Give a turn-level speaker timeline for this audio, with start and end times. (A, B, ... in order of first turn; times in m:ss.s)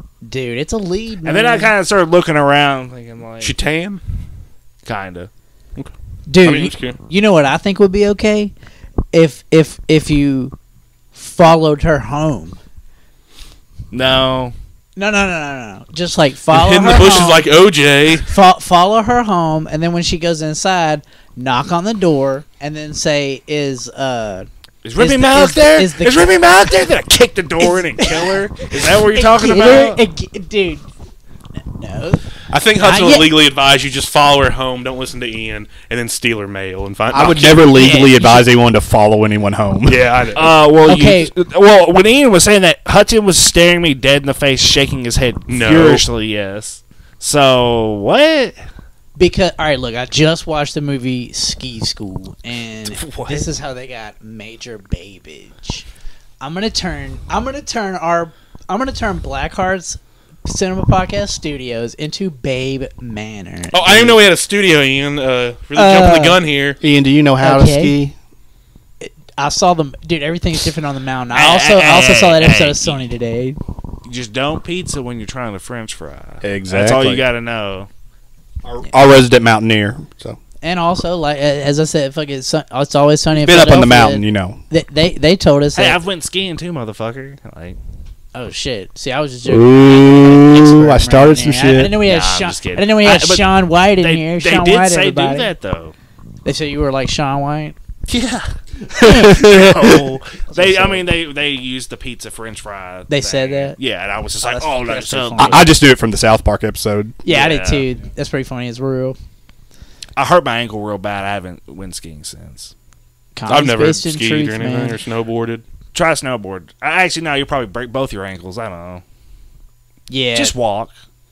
0:00.2-0:01.7 A
0:01.2-0:03.5 B
0:03.4-0:04.0 C
0:04.8-0:05.3 B
0:06.3-0:08.5 A
0:06.4-0:07.0 C
0:09.1-0:10.5 A
0:11.2-0:12.6 A
0:13.9-0:14.6 B
0:15.0-0:17.5 A
0:16.5-0:18.3 C
0:18.2-0:26.3 A
0:24.8-0:30.0 B
0:27.6-0:28.4 A
0:29.0-0:30.9 A
0:31.8-0:32.2 A
0:32.5-0:37.7 C
0:32.8-0:33.3 A
0:37.1-0:40.1 D
0:37.7-0:38.5 A
0:39.9-0:40.6 C
0:40.4-0:48.6 B
0:40.9-0:41.3 A
0:45.5-0:46.1 C
0:49.2-0:55.8 A
0:52.9-0:53.5 B
0:56.4-1:04.2 A
1:03.7-1:06.8 C
1:05.8-1:06.4 A
1:06.8-1:08.2 D
1:07.4-1:08.0 A
1:09.0-1:13.6 A
1:11.3-1:13.0 B
1:14.1-1:17.9 B
1:16.4-1:17.2 D
1:18.6-1:20.4 D
1:20.6-1:26.0 A
1:23.4-1:24.6 D
1:25.8-1:27.8 B
1:28.3-1:35.5 A
1:29.5-1:32.0 D
1:31.9-1:36.0 B
1:36.4-1:37.8 A
1:38.1-1:45.7 B
1:38.9-1:39.4 A
1:39.0-1:40.1 D
1:40.5-1:41.0 A
1:43.1-1:43.8 A
1:44.4-1:45.8 A
1:45.4-1:47.2 D
1:47.2-1:49.2 A
1:47.3-1:47.9 B
1:50.2-1:52.7 B
1:53.4-1:55.0 A
1:53.5-1:55.6 C
1:55.9-1:59.0 B
2:00.1-2:00.5 A
2:00.4-2:00.9 B